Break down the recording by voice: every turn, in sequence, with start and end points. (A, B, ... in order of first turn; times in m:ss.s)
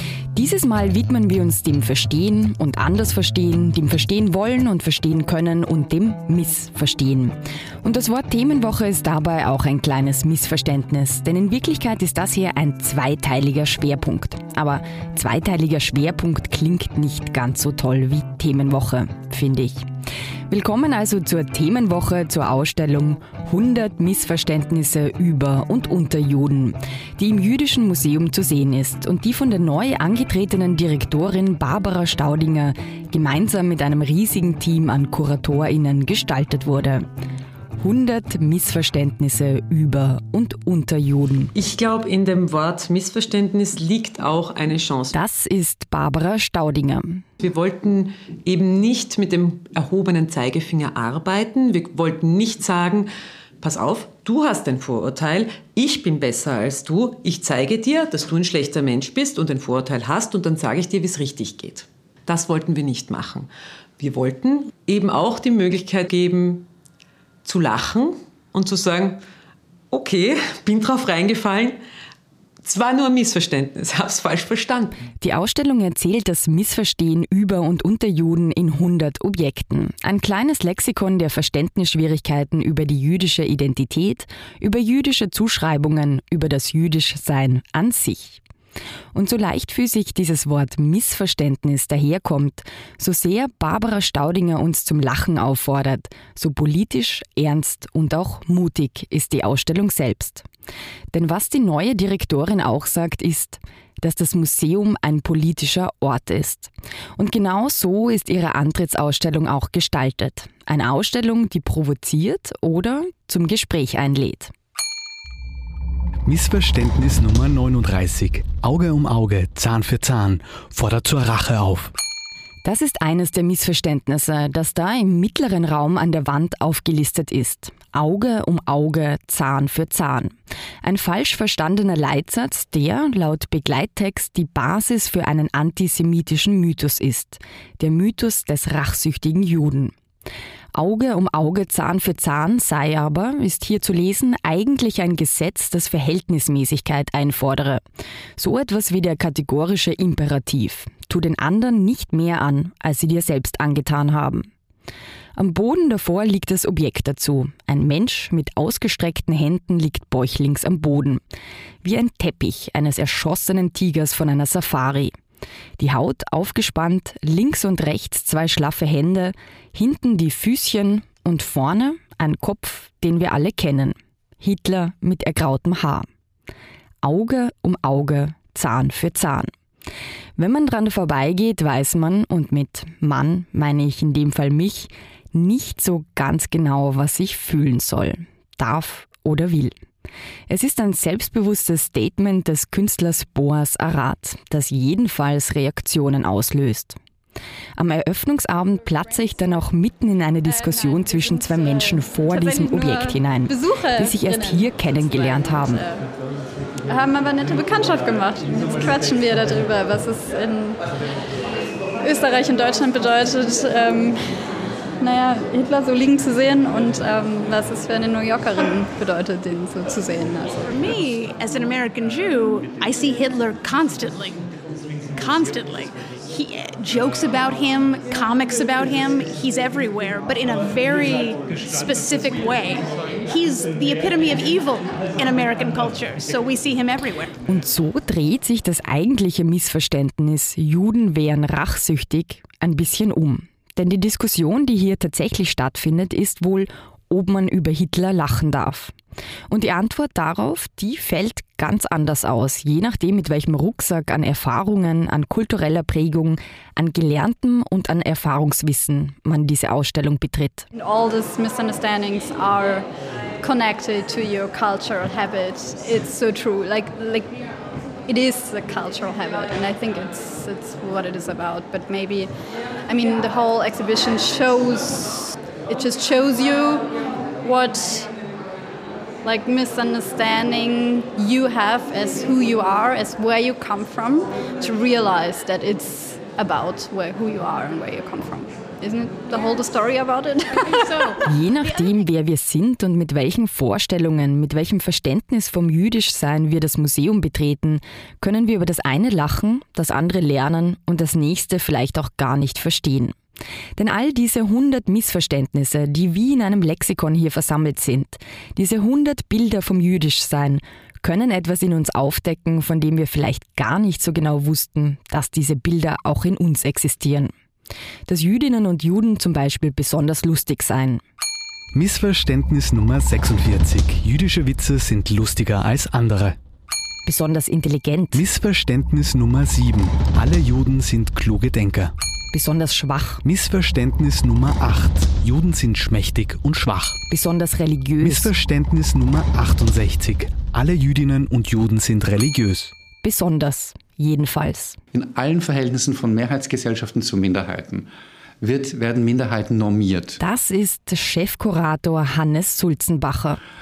0:00.3-0:19.8 A
0:20.5-0:37.0 A
0:37.8-0:41.5 A
0:41.5-0:45.1 B
0:45.1-0:47.2 A
0:47.4-0:53.1 B
0:53.6-1:03.5 B
1:04.0-1:06.7 B
1:07.4-1:09.2 B
1:09.9-1:11.8 B
1:12.6-1:15.0 B
1:15.2-1:28.4 A
1:29.1-1:40.4 A
1:41.1-1:54.5 A
1:56.2-2:01.9 C
2:02.6-2:19.9 A
2:20.7-2:27.8 A
2:28.4-2:34.5 A
2:35.4-2:41.2 A
2:41.8-2:45.1 A
2:45.8-2:56.1 A
2:57.0-2:59.5 A
3:00.4-3:09.7 A
3:10.5-3:17.0 A
3:17.8-3:25.8 A
3:20.6-3:26.0 D
3:26.8-3:30.8 D
3:32.0-3:34.2 D
3:35.0-3:40.8 D
3:40.7-3:44.4 E
3:45.2-3:57.3 E
3:57.5-4:08.9 A
4:09.5-4:20.7 A
4:20.7-4:22.8 D
4:23.4-4:27.3 D
4:28.1-4:32.3 D
4:32.9-4:36.8 D
4:37.4-4:38.1 D
4:39.2-4:51.2 D
4:51.2-5:03.2 A
5:03.8-5:17.3 A
5:18.1-5:21.0 A
5:21.7-5:26.4 C
5:27.0-5:28.2 A
5:28.1-5:31.9 C
5:32.3-5:33.2 A
5:33.2-5:37.0 C
5:37.1-5:38.3 A
5:38.0-5:42.7 C
5:43.0-5:44.8 A
5:44.9-5:47.9 F
5:48.4-5:50.2 F
5:50.2-5:53.4 A